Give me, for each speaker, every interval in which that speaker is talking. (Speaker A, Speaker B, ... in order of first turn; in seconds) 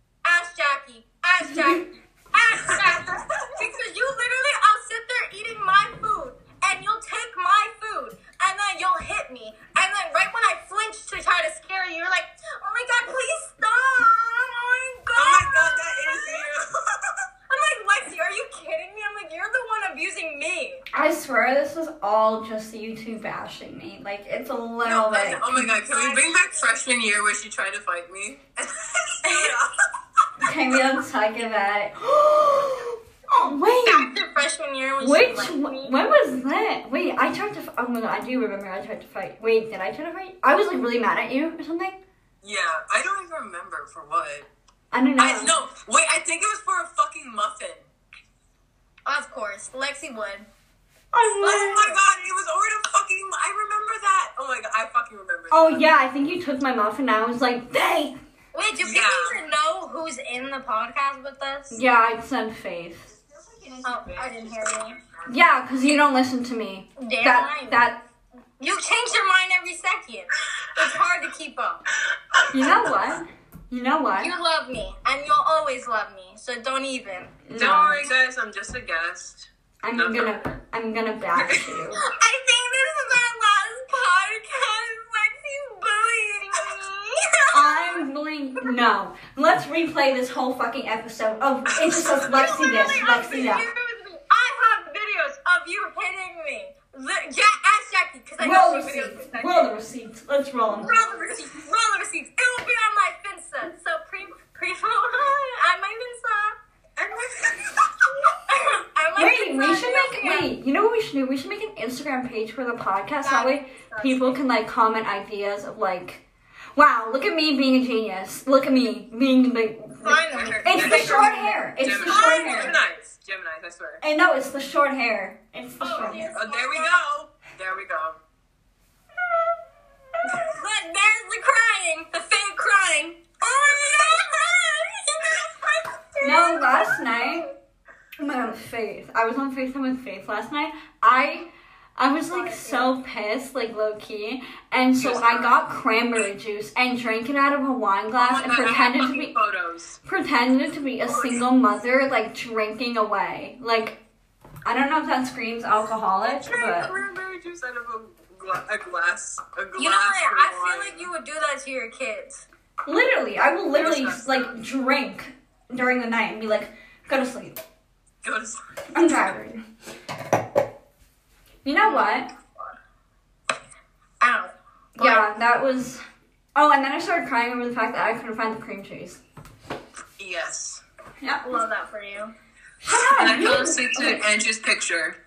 Speaker A: 0.2-16.5, 17.5-20.8, 25.7-26.6, 29.2-29.5, 33.7-36.0, 49.0-50.5, 51.4-51.9, 58.5-61.8, 63.8-65.0, 67.0-67.8, 68.6-71.8, 74.2-77.3, 81.9-88.0, 92.3-99.7, 100.8-106.5, 108.3-110.5, 113.2-114.4, 120.0-122.8, 125.8-127.0, 130.3-137.5, 142.3-142.9, 159.7-162.4, 171.8-172.8, 174.2-175.3, 181.4-182.3
Speaker B: 1.5-1.8, 20.9-25.5, 30.4-34.1, 35.0-42.0, 44.9-45.5, 51.1-52.0, 55.5-58.2, 61.7-63.1, 65.2-68.0, 72.5-74.3, 77.5-78.0, 79.8-82.0, 87.5-93.7, 98.4-100.9, 109.2-116.2, 116.8-122.8, 124.0-126.3, 136.2-137.5, 138.2-149.3, 150.0-154.0, 154.6-156.9, 162.8-167.6, 168.9-169.6, 171.6-172.3, 175.0-176.0, 176.5-179.2, 181.2-181.5, 182.8-184.2
Speaker C: 15.2-17.2, 24.8-29.7, 42.4-44.5, 45.2-47.9, 51.4-55.9, 58.8-59.4, 63.3-65.2, 72.3-72.9, 77.5-80.5, 81.3-81.8, 91.9-92.3, 107.0-107.8, 120.3-124.0, 126.3-128.2, 145.0-145.7, 148.2-150.0, 151.1-151.4, 156.2-161.1, 163.7-164.5, 168.2-168.6, 180.2-180.8, 182.9-185.2